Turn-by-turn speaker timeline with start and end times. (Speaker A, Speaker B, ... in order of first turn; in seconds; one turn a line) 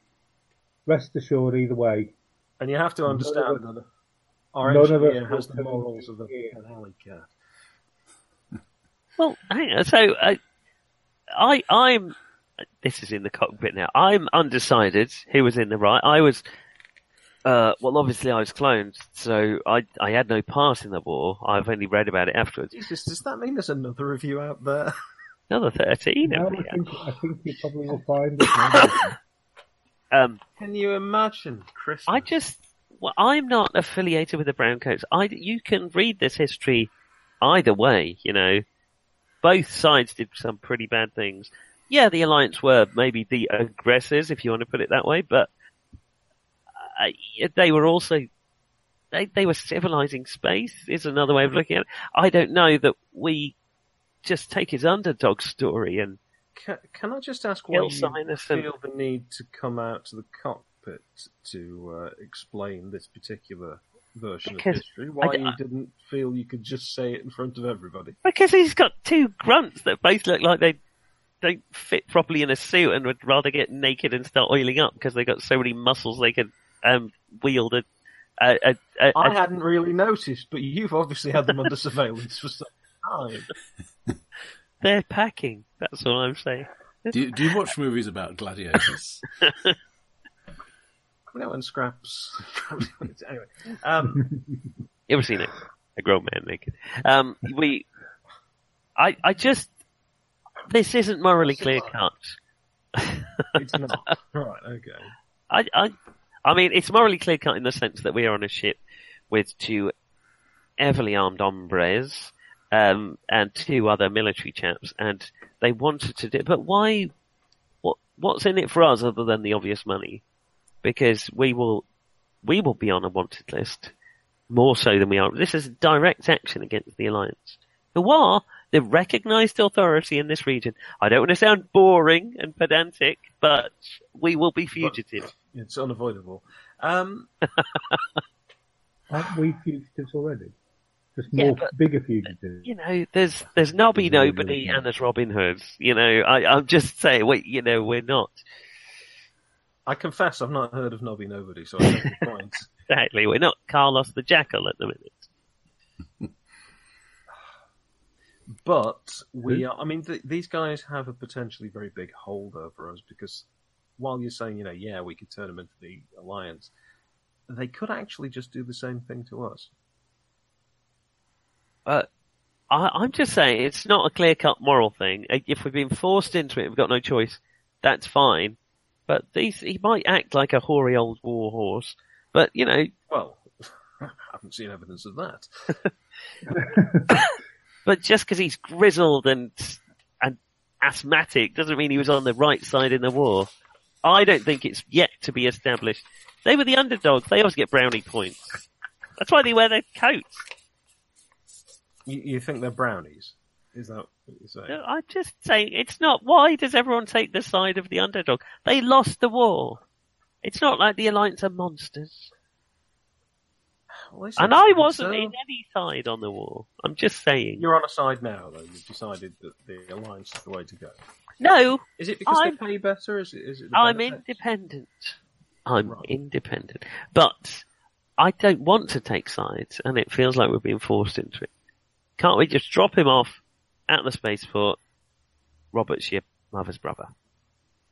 Speaker A: 0.9-2.1
Speaker B: 2.6-3.9
Speaker A: 3.1-3.6
Speaker B: 4.5-7.3
Speaker A: 4.6-6.6
Speaker C: 9.2-10.4
Speaker C: 11.4-12.2
Speaker C: 12.8-16.4
Speaker C: 17.4-22.7
Speaker B: 22.7-24.9
Speaker C: 25.5-26.8
Speaker A: 26.2-29.1
Speaker C: 30.1-30.4
Speaker B: 30.6-32.3
Speaker C: 32.1-38.6
Speaker C: 39.4-45.5
Speaker C: 46.8-48.3
Speaker C: 49.1-53.5
Speaker C: 54.2-56.2
Speaker B: 56.5-68.2
Speaker C: 57.7-58.7
Speaker C: 64.5-65.6
Speaker C: 68.2-70.8
Speaker C: 71.4-77.8
Speaker C: 78.4-79.4
Speaker B: 79.1-83.5
Speaker C: 84.8-86.7
Speaker D: 87.1-89.2
Speaker B: 91.3-94.3
Speaker C: 95.1-97.9
Speaker C: 99.0-99.7
Speaker C: 100.7-102.4
Speaker B: 101.4-102.0
Speaker C: 103.0-103.5
Speaker B: 103.5-105.1
Speaker C: 105.5-105.9
Speaker C: 106.5-109.9
Speaker C: 110.8-117.1
Speaker C: 117.8-120.2
Speaker C: 120.8-121.8
Speaker C: 122.4-123.9
Speaker C: 124.5-135.3
Speaker B: 134.8-137.3
Speaker A: 139.1-140.5
Speaker A: 141.1-142.7
Speaker C: 141.3-141.7
Speaker C: 142.6-148.4
Speaker A: 143.9-144.8
Speaker B: 149.9-152.7
Speaker C: 152.9-155.3
Speaker B: 158.6-163.5
Speaker B: 164.0-166.7
Speaker B: 167.5-169.7
Speaker C: 172.7-182.9
Speaker B: 183.1-185.5
Speaker A: 186.6-187.1
Speaker C: 187.9-193.5
Speaker C: 194.0-198.6
Speaker C: 199.2-200.4
Speaker B: 202.1-204.8
Speaker C: 204.7-209.8
Speaker C: 210.4-212.3
Speaker B: 214.1-215.3
Speaker C: 214.4-217.6
Speaker B: 217.6-220.9
Speaker C: 221.4-222.6
Speaker B: 222.0-224.4
Speaker C: 223.7-227.6
Speaker C: 228.2-231.5
Speaker C: 232.2-234.8
Speaker C: 235.7-237.1